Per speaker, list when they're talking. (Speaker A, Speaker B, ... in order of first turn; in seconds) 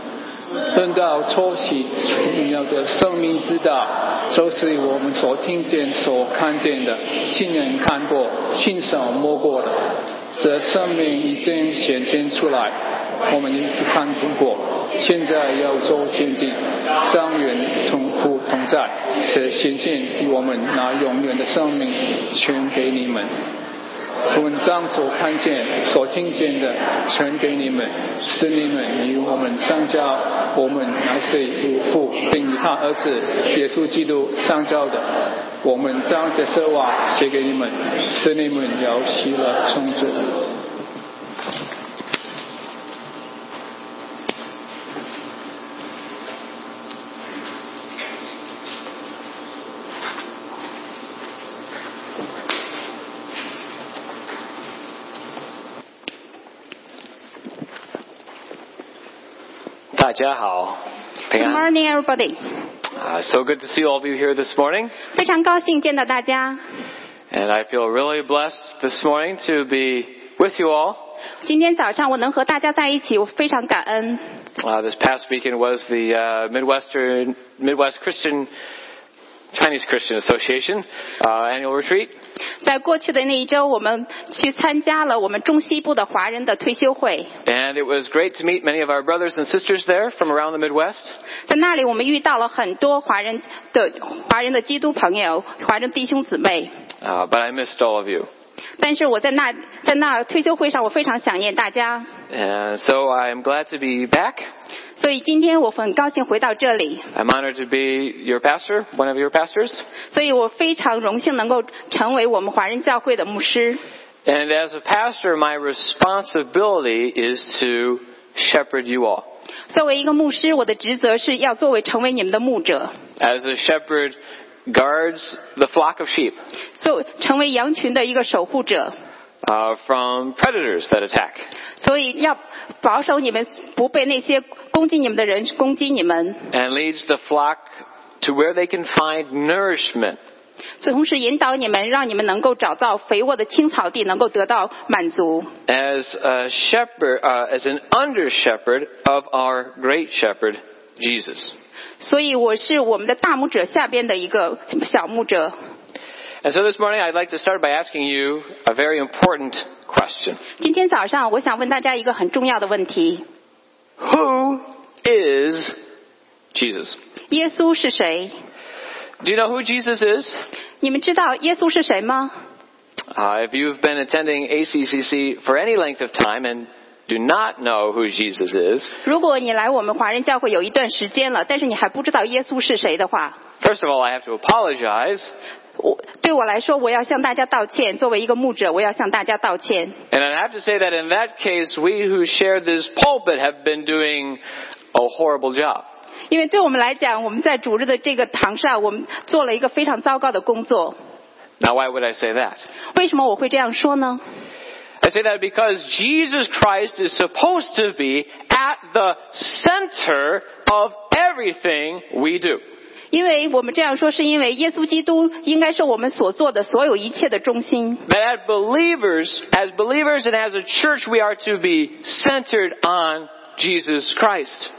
Speaker A: 0.7-12.7, 13.2-23.3, 24.3-40.5
Speaker B: 59.9-61.6, 63.0-64.9, 67.3-71.1, 74.6-78.5, 79.5-82.1, 87.4-91.1, 97.0-98.3, 102.3-104.5, 107.1-109.8, 114.2-119.2, 123.2-126.4, 129.4-131.4, 136.5-137.7, 138.2-140.2, 145.7-151.6, 156.4-160.4, 164.0-165.8, 166.5-167.0, 169.2-170.4, 173.1-178.9, 183.6-185.3, 190.1-194.4, 194.9-195.8, 201.6-202.6, 205.0-212.6, 218.1-224.7
Speaker C: 61.3-62.4, 65.1-66.6, 71.4-74.2, 82.6-87.3, 91.5-96.7, 98.8-102.1, 105.0-107.1, 110.1-113.8, 119.7-122.9, 126.8-128.9, 131.8-136.4, 140.8-145.5, 152.0-155.5, 160.6-163.2, 167.3-168.3, 170.8-172.3, 179.0-183.4, 185.8-190.0, 196.3-200.9, 202.9-204.2, 213.1-218.0